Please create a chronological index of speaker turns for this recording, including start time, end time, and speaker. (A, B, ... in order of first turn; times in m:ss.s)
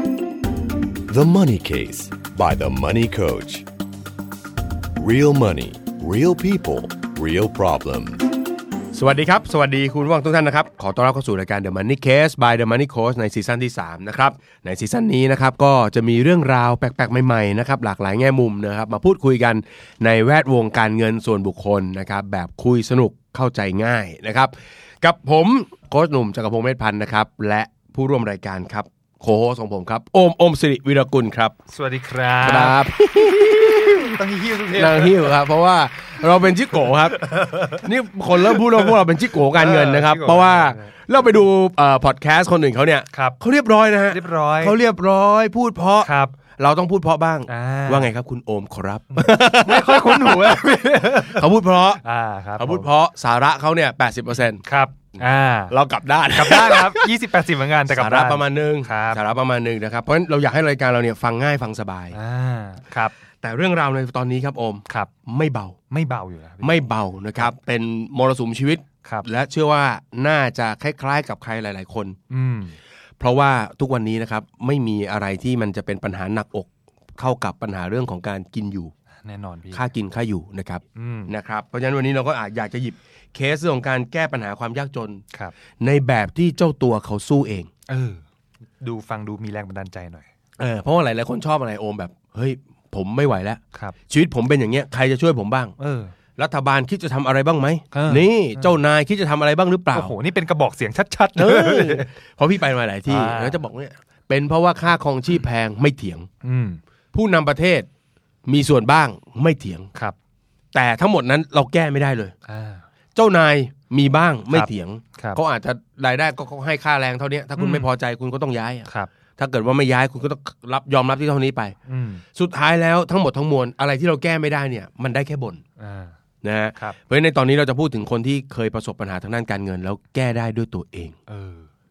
0:01.1-0:03.7 A
0:05.0-0:08.3 A
0:08.9-0:31.6 B
0:31.7-0:32.8 C
0:32.4-0:34.2 B
0:33.4-0:35.4 C
0:34.7-0:52.0 B
0:36.8-0:37.8 C
0:38.5-0:38.9 C
0:39.5-0:40.9 C
0:44.1-0:44.8 C
0:46.0-0:46.3 C
0:47.5-0:48.1 C
0:49.1-0:51.5 C
0:52.0-0:52.9 C
0:52.6-0:54.6 B
0:54.6-0:55.7 C
0:55.2-0:57.1 B
0:56.3-0:59.2 C
0:57.9-1:02.2 B
1:02.1-1:03.1 C
1:03.4-1:05.8 B
1:05.9-1:06.8 C
1:06.6-1:12.2 B
1:12.3-1:12.8 C
1:13.2-1:18.9 B
1:19.2-1:19.8 C
1:19.7-1:25.2 B
1:21.0-1:21.3 C
1:25.8-1:27.7 B
1:27.9-1:28.2 C
1:28.8-1:30.3 C
1:30.6-1:35.8 B
1:35.8-1:36.1 C
1:36.4-1:40.1 B
1:37.9-1:38.7 C
1:39.9-1:42.1 C
1:41.4-1:46.3 B
1:43.1-1:43.6 C
1:46.4-1:46.8 C
1:47.1-1:47.9 B
1:48.4-1:49.9 B
1:50.7-1:52.3 B
1:52.5-1:52.8 C
1:53.1-2:01.7 B
1:54.5-1:55.4 C
1:57.6-1:57.9 C
2:01.9-2:02.2 C
2:02.3-2:05.6 B
2:05.8-2:06.2 C
2:06.4-2:11.2 B
2:11.3-2:11.7 C